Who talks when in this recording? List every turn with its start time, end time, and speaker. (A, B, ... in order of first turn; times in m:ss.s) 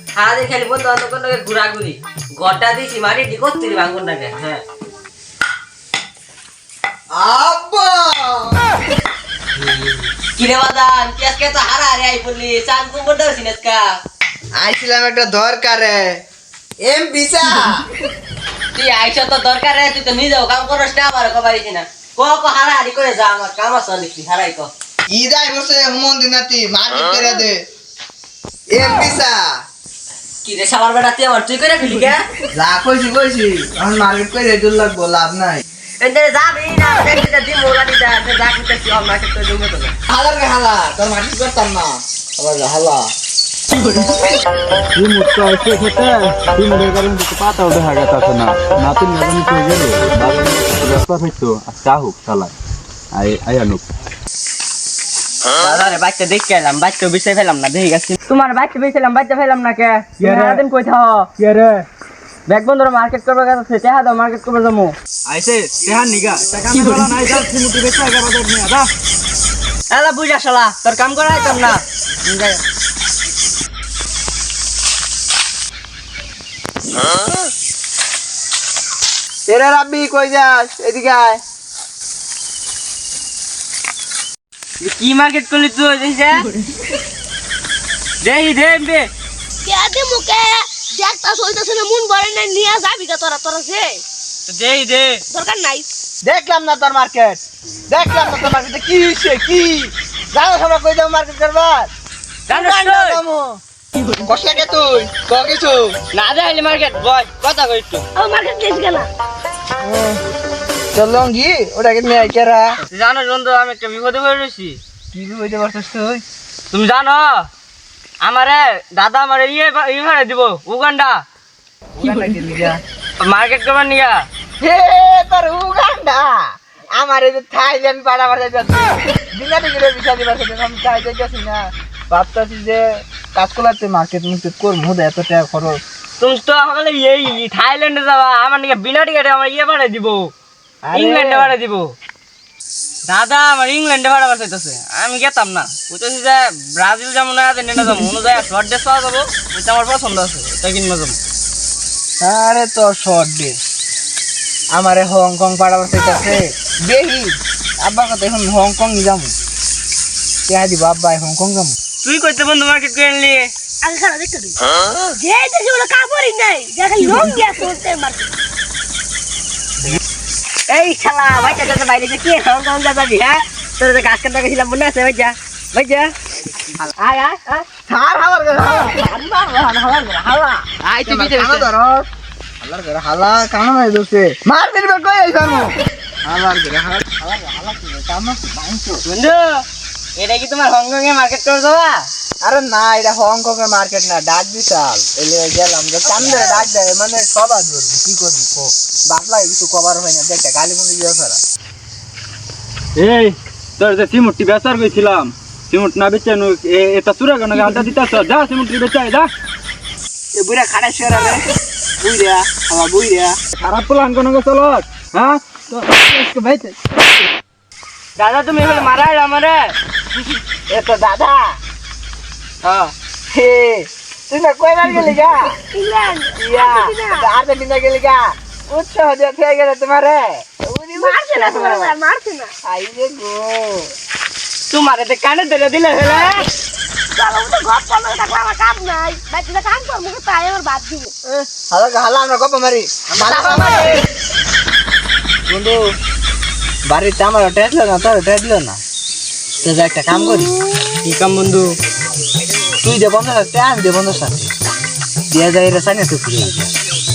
0:00.2-0:04.6 A
0:07.1-0:08.6 B
0:10.4-0:13.9 A
0:14.6-0:16.2 B
0:16.8-0:17.8 B
0:18.7-0:24.7 A
0:25.1-0:27.6 B
0:28.7-0:29.4 B
0:30.4-0:32.2 A
0:32.5-0:35.6 B
0:36.0-0:39.9 A
0:40.1-0:43.1 B
0:43.8-0:44.1 C
0:44.9-0:52.5 C
0:53.1-0:53.8 C
0:55.5-1:01.3 A
1:00.2-1:00.6 C
1:01.4-1:01.8 C
1:02.5-1:04.9 A
1:05.3-1:08.9 C
1:09.9-1:11.8 A
1:19.5-1:21.4 B
1:24.8-1:26.4 A
1:28.2-1:29.1 A
1:29.6-1:34.0 D
1:34.5-1:35.2 A
1:35.3-1:35.9 D
1:36.2-1:41.9 B
1:42.5-1:43.2 A
1:42.5-1:42.8 D
1:42.7-1:43.6 B
1:44.2-1:45.9 B
1:46.1-1:48.0 A
1:48.2-1:49.1 D
1:49.8-1:50.2 B
1:50.9-1:52.7 B
1:52.9-1:54.8 A
1:55.1-1:56.2 B
1:56.7-1:57.5 A
1:58.2-2:01.2 A
2:02.0-2:02.8 B
2:03.2-2:04.2 A
2:04.6-2:12.8 B
2:13.3-2:15.8 B
2:16.2-2:20.3 A
2:20.8-2:21.5 B
2:20.9-2:21.9 A
2:23.1-2:31.2 A
2:32.2-2:33.6 B
2:34.7-2:39.3 B
2:40.5-2:41.7 B
2:42.0-2:43.5 A
2:43.8-2:48.3 D
2:50.7-2:56.1 A
2:57.0-2:57.6 A
2:57.8-3:02.1 B
3:00.8-3:01.7 A
3:02.6-3:05.7 B
3:06.2-3:09.0 B
3:09.0-3:09.6 A
3:10.2-3:12.1 A
3:12.4-3:21.4 B
3:23.0-3:29.3 C
3:30.3-3:31.4 B
3:32.0-3:33.4 B
3:33.5-3:36.6 C
3:38.2-3:39.7 A
3:40.7-3:41.4 B
3:42.6-3:42.9 A
3:43.3-3:45.5 B
3:45.7-3:47.2 D
3:46.4-3:51.9 B
3:51.0-3:52.5 D
3:52.6-3:53.9 B
3:54.7-3:56.5 A
3:57.2-4:01.1 D
4:01.2-4:04.0 B
4:03.5-4:04.0 D
4:05.5-4:05.8 B
4:06.9-4:08.8 B
4:09.6-4:10.6 B
4:11.0-4:11.7 A
4:12.8-4:14.5 B
4:15.3-4:16.7 B